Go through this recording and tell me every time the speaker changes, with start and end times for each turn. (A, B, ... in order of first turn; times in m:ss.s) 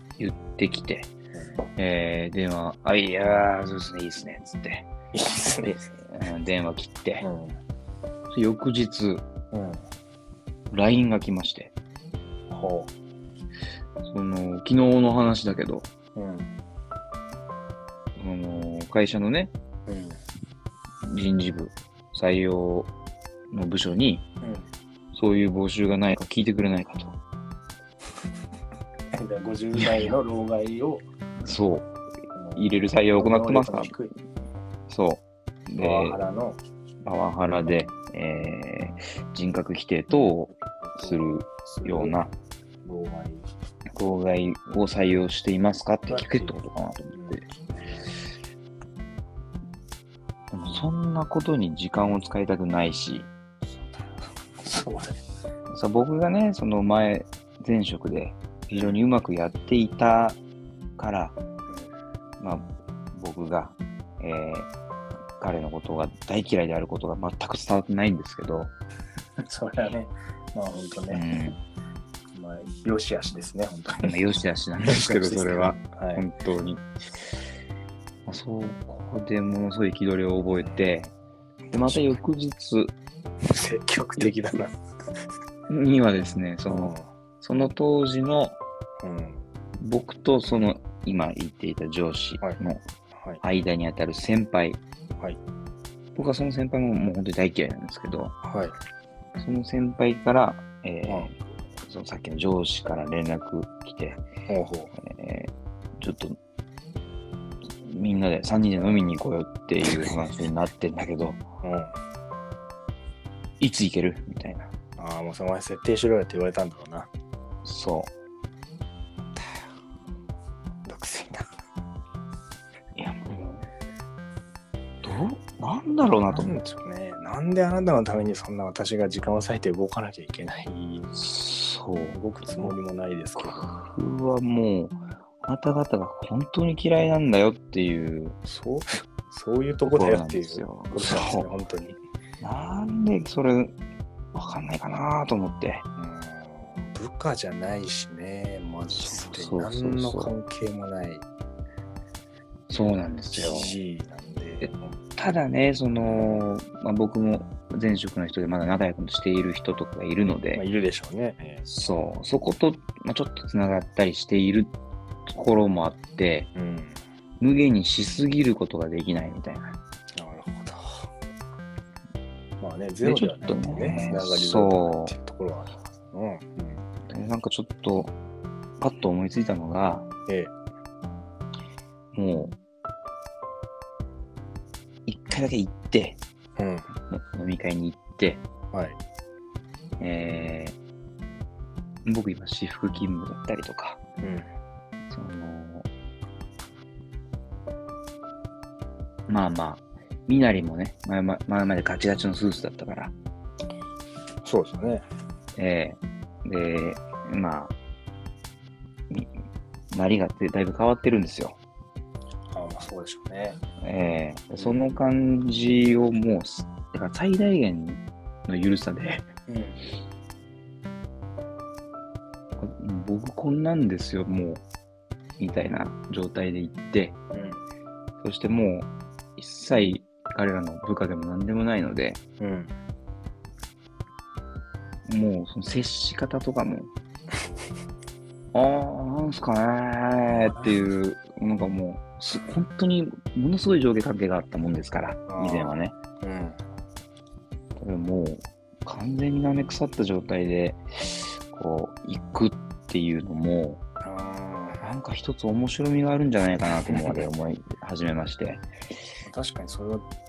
0:00.2-0:01.1 A
0:01.3-0:01.6 B
0:01.8-0:04.9 A
0:05.1-0:05.8 B
0:05.6-0:07.2 A
0:07.2-0:07.6 B
0:08.3-0:09.2 A
0:09.5-0:09.8 B
0:10.7-0:11.7 A
0:12.5-0:12.9 B
0:14.0-0:15.9 A
0:16.2-0:16.5 B
0:18.2-0:19.5 A
0:19.9-0:20.2 B
0:21.0-0:22.9 A
0:23.5-0:24.2 A
0:24.4-0:24.7 B
0:25.1-0:27.2 A
0:29.1-0:31.0 B
0:31.4-0:31.9 A
0:32.3-0:34.1 B
0:32.6-0:33.9 A
0:34.9-0:36.2 A
0:35.8-0:36.6 B
0:37.0-0:42.3 A
0:40.8-0:42.2 B
0:42.8-0:43.4 B
0:43.9-0:47.4 A
0:46.1-0:46.6 B
0:47.1-0:48.1 B
0:50.5-0:53.3 A
0:53.6-0:55.2 B
0:55.7-1:00.4 A
0:58.7-0:59.0 B
1:01.0-1:01.4 A
1:02.4-1:04.7 A
1:05.4-1:08.7 A
1:09.4-1:11.2 B
1:11.1-1:11.6 A
1:12.3-1:14.1 B
1:14.0-1:16.8 A
1:14.8-1:16.2 B
1:18.2-1:21.1 A
1:20.6-1:20.8 B
1:21.7-1:22.2 B
1:21.7-1:22.9 A
1:23.4-1:24.7 B
1:25.7-1:28.6 A
1:26.7-1:27.1 B
1:29.0-1:29.4 B
1:29.8-1:32.8 A
1:33.4-1:34.8 A
1:36.1-1:38.3 A
1:38.4-1:38.7 B
1:39.4-1:44.2 A
1:41.1-1:41.3 B
1:44.5-1:44.9 B
1:45.0-1:46.4 A
1:47.8-1:51.4 A
1:51.6-1:51.9 B
1:53.6-1:54.7 A
1:55.0-1:57.1 B
1:57.6-1:58.1 A
2:00.8-2:01.5 B
2:03.0-2:03.7 A
2:05.0-2:06.6 A
2:06.3-2:11.2 B
2:11.1-2:12.8 A
2:12.1-2:13.7 B
2:13.4-2:18.4 A
2:18.4-2:22.0 B
2:19.8-2:21.5 A
2:22.4-2:23.7 A
2:24.3-2:25.8 A
2:26.0-2:31.2 B
2:28.9-2:30.3 A
2:32.7-2:33.7 A
2:33.3-2:35.0 B
2:34.6-2:40.6 A
2:36.0-2:36.4 B
2:40.5-2:41.6 B
2:41.6-2:44.7 A
2:45.3-2:46.5 A
2:46.5-2:47.0 B
2:47.4-2:49.8 A
2:50.2-2:51.1 B
2:52.6-2:56.9 B
2:53.0-2:55.1 A
2:57.1-2:58.1 A
2:58.8-3:00.1 A
3:00.3-3:00.5 B
3:02.1-3:02.6 A
3:05.0-3:06.2 A
3:06.6-3:06.9 B
3:07.1-3:08.4 A
3:08.7-3:09.0 B
3:10.0-3:10.8 A
3:12.0-3:14.0 A
3:14.2-3:14.5 B
3:15.1-3:15.9 A
3:19.3-3:23.1 A
3:24.4-3:25.0 B
3:25.6-3:27.7 A
3:29.9-3:31.6 A
3:32.5-3:33.6 B
3:33.8-3:39.3 A
3:34.6-3:35.0 B
3:39.5-3:39.8 B
3:42.6-3:44.6 A
3:45.4-3:47.2 A
3:47.3-3:47.6 B
3:48.2-3:52.2 A
3:52.4-3:52.7 B
3:55.0-3:56.9 A
3:58.5-4:06.0 A
4:00.3-4:00.8 B
4:05.3-4:06.6 B
4:07.8-4:13.8 A
4:14.0-4:14.8 B
4:14.8-4:18.6 A
4:16.9-4:17.2 B
4:19.2-4:20.0 B